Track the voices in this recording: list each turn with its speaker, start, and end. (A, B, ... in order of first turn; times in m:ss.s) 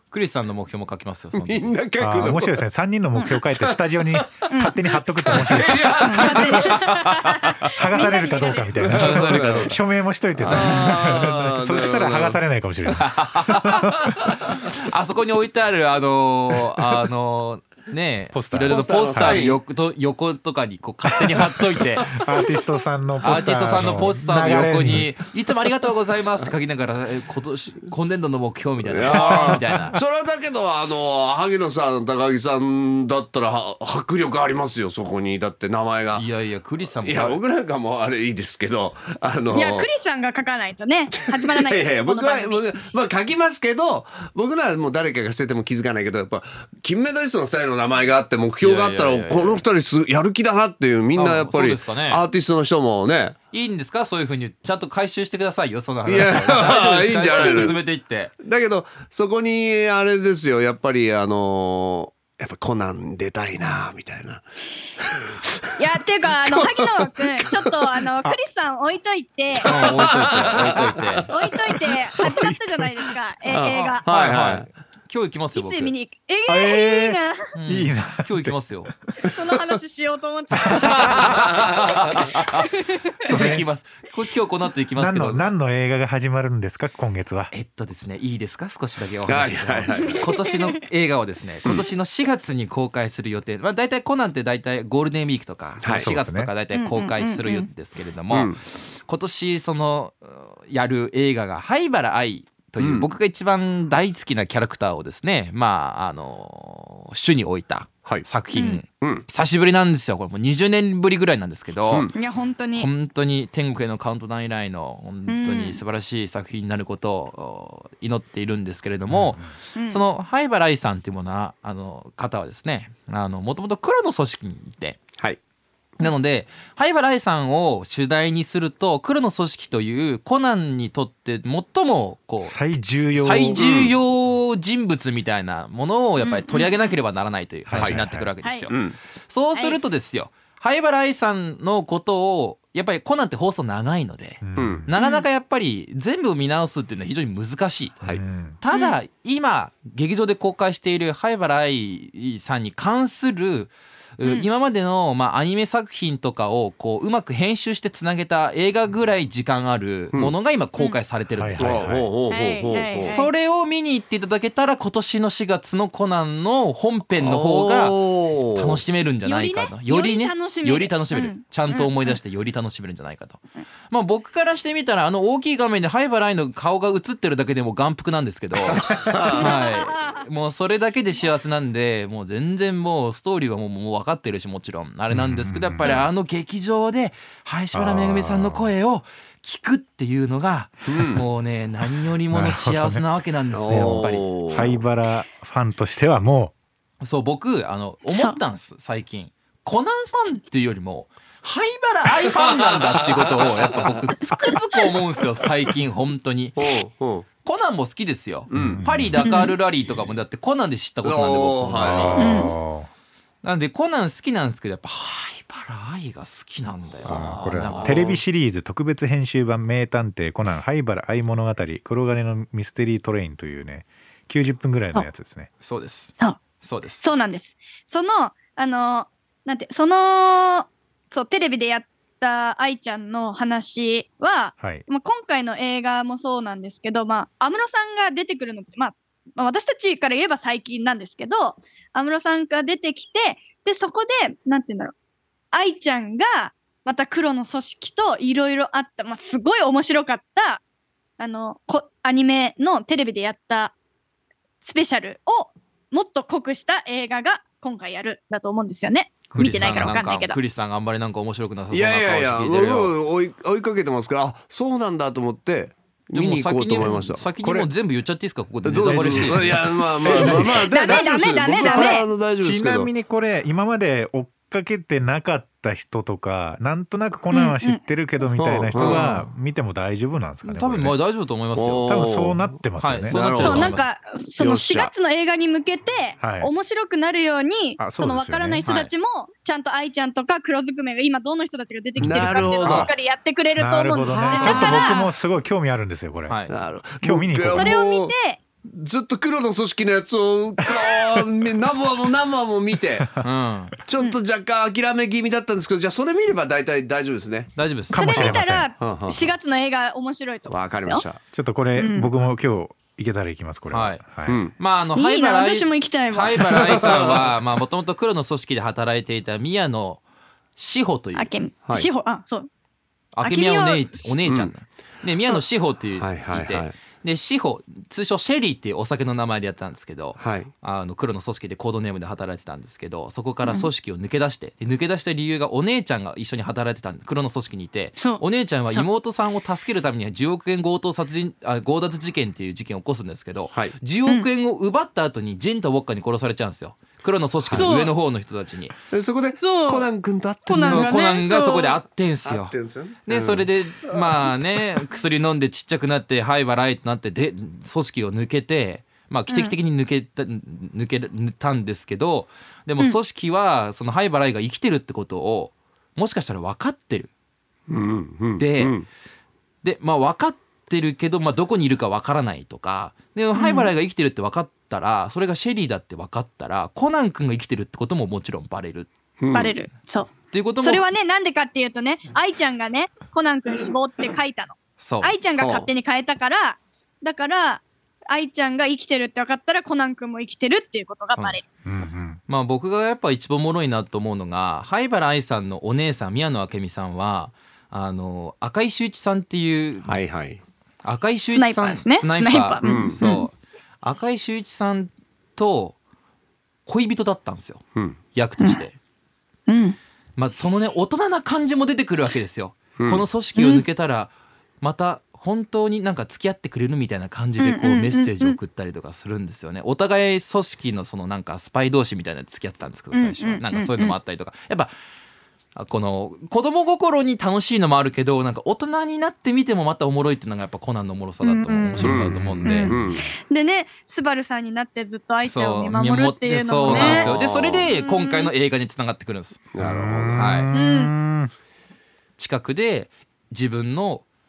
0:00.1-0:01.7 A
0:01.3-0:02.6 B
0:02.0-0:06.6 C
0:03.4-0:04.5 B
0:04.5-0:04.8 D
0:05.3-0:06.9 B
0:06.0-0:08.7 D
0:06.2-0:07.5 A
0:07.7-0:14.2 C
0:08.8-0:09.8 B
0:08.9-0:09.8 A
0:10.4-0:12.4 B
0:10.4-0:11.2 A
0:12.9-0:22.2 A
0:18.3-0:19.5 C
0:18.6-0:19.6 B
0:22.1-0:25.1 C
0:23.2-0:30.0 A
0:28.8-0:36.3 B
0:29.1-0:29.7 C
0:36.1-0:37.4 A
0:37.0-0:39.9 B
0:39.5-0:42.6 D
0:41.3-0:53.4 B
0:48.6-0:49.6 A
0:51.1-0:52.2 A
0:53.5-0:58.3 A
0:56.1-0:57.8 B
0:58.4-1:04.4 B
1:05.0-1:05.8 B
1:05.8-1:10.0 D
1:06.4-1:08.1 B
1:09.6-1:11.4 B
1:09.6-1:11.3 A
1:11.3-1:14.1 D
1:13.5-1:14.7 B
1:14.0-1:15.9 A
1:15.6-1:17.5 D
1:16.5-1:18.6 C
1:17.6-1:18.9 A
1:19.2-1:21.3 D
1:20.7-1:22.7 A
1:21.2-1:22.3 B
1:22.6-1:23.1 D
1:23.2-1:25.5 A
1:23.3-1:23.7 C
1:25.0-1:27.5 C
1:27.5-1:52.1 A
1:29.3-1:30.3 B
1:35.8-1:36.1 B
1:35.9-1:36.5 C
1:36.7-1:37.7 D
1:38.3-1:38.6 B
1:42.8-1:43.1 B
1:48.5-1:48.8 D
1:52.1-1:52.9 D
1:52.8-2:05.0 A
1:55.3-1:55.8 D
1:59.1-1:59.5 C
1:59.8-2:00.0 D
2:06.0-2:42.0 A
2:12.4-2:13.6 C
2:13.6-2:13.9 B
2:16.2-2:17.0 D
2:17.7-2:18.3 C
2:17.8-2:18.0 B
2:18.4-2:18.7 D
2:18.7-2:19.0 B
2:19.5-2:19.8 D
2:24.4-2:24.9 C
2:24.6-2:24.9 B
2:25.0-2:25.2 D
2:28.1-2:28.6 C
2:28.7-2:29.0 D
2:41.4-2:42.1 C
2:41.6-2:43.1 B
2:42.3-2:43.3 D
2:43.0-3:14.7 A
2:47.2-2:48.8 B
2:49.2-2:52.2 D
2:58.6-2:59.5 B
2:59.3-3:00.2 D
3:05.1-3:05.9 C
3:05.8-3:06.1 D
3:07.7-3:08.7 C
3:10.9-3:11.2 B
3:12.3-3:13.0 C
3:13.5-3:14.8 B
3:13.7-3:16.5 C
3:17.0-3:26.7 A
3:18.1-3:18.4 D
3:22.1-3:24.0 B
3:26.6-3:27.3 B
3:27.4-3:32.4 A
3:28.5-3:28.9 B
3:28.5-3:29.2 C
3:29.2-3:29.6 D
3:31.0-3:32.4 B
3:31.8-3:32.9 C
3:32.2-3:32.5 D
3:33.4-3:38.1 A
3:37.0-3:38.2 B
3:37.0-3:45.5 C
3:45.6-3:47.0 A
3:47.0-4:04.9 D
3:54.6-3:54.8 C
4:05.5-4:10.6 D
4:11.2-4:13.8 D
4:14.6-4:20.4 D
4:19.3-4:22.9 A
4:19.4-4:19.9 C
4:21.7-4:27.2 B
4:26.1-4:30.4 A
4:27.4-4:27.7 C
4:28.6-4:32.9 B
4:28.8-4:30.6 C
4:30.1-4:32.1 D
4:31.7-4:41.0 C
4:37.3-4:37.8 D
4:38.4-4:39.0 B
4:38.8-4:39.2 A
4:40.4-4:42.1 A
4:41.6-4:42.5 B
4:41.8-4:43.4 C
4:42.8-4:43.8 A
4:43.1-4:43.8 B
4:43.4-4:55.1 D
4:44.4-4:44.9 B
4:46.2-4:46.5 C
4:47.8-4:48.6 C
4:52.0-4:52.9 C
4:52.0-4:52.9 B
4:53.6-4:56.4 C
4:54.0-4:54.9 B
4:56.3-4:56.5 A
4:56.5-5:03.2 B
4:57.0-4:57.7 C
4:57.5-4:58.4 D
5:03.2-5:03.8 A
5:03.9-5:07.5 B
5:07.6-5:08.3 A
5:07.9-5:08.7 C
5:07.9-5:11.0 D
5:08.8-5:09.3 B
5:10.5-5:11.2 B
5:11.3-5:14.4 C
5:11.8-5:12.1 D
5:13.7-5:20.0 A
5:14.3-5:14.5 B
5:14.9-5:16.5 D
5:16.4-5:17.4 B
5:20.6-5:21.3 A
5:21.1-5:22.5 D
5:23.1-5:48.8 A
5:23.2-5:23.9 D
5:24.2-5:24.5 B
5:26.0-5:26.8 B
5:30.2-5:30.5 B
5:38.0-5:38.9 D
5:47.4-5:47.7 B
5:47.6-5:47.9 D
5:48.9-5:51.0 B
5:49.4-5:49.9 D
5:50.5-5:51.8 D
5:50.6-5:52.6 A
5:52.2-5:53.5 B
5:53.1-6:07.1 A
5:53.9-5:54.2 D
5:59.3-5:59.6 D
6:07.7-6:08.9 B
6:08.4-6:08.8 A
6:09.6-6:18.9 A
6:13.3-6:13.7 D
6:19.2-6:19.5 B
6:19.3-6:31.4 D
6:20.3-6:20.8 A
6:24.8-6:25.2 A
6:25.4-6:25.7 B
6:31.6-6:32.2 C
6:32.3-6:40.0 A
6:39.8-6:40.4 B
6:40.8-6:45.8 A
6:41.3-6:43.3 D
6:42.6-6:43.0 B
6:46.6-6:48.8 A
6:49.5-6:49.8 D
6:50.2-7:04.7 A
6:52.8-6:53.0 B
6:53.4-6:53.6 D
6:57.4-6:58.4 D
7:02.9-7:04.0 D
7:05.6-7:12.8 A
7:11.2-7:17.1 D
7:11.8-7:13.1 B
7:15.3-7:19.5 A
7:16.6-7:17.7 B
7:17.7-7:18.3 D
7:19.5-7:20.4 B
7:19.6-7:21.3 C
7:20.1-7:20.5 A
7:20.5-7:20.9 D
7:22.2-7:24.0 A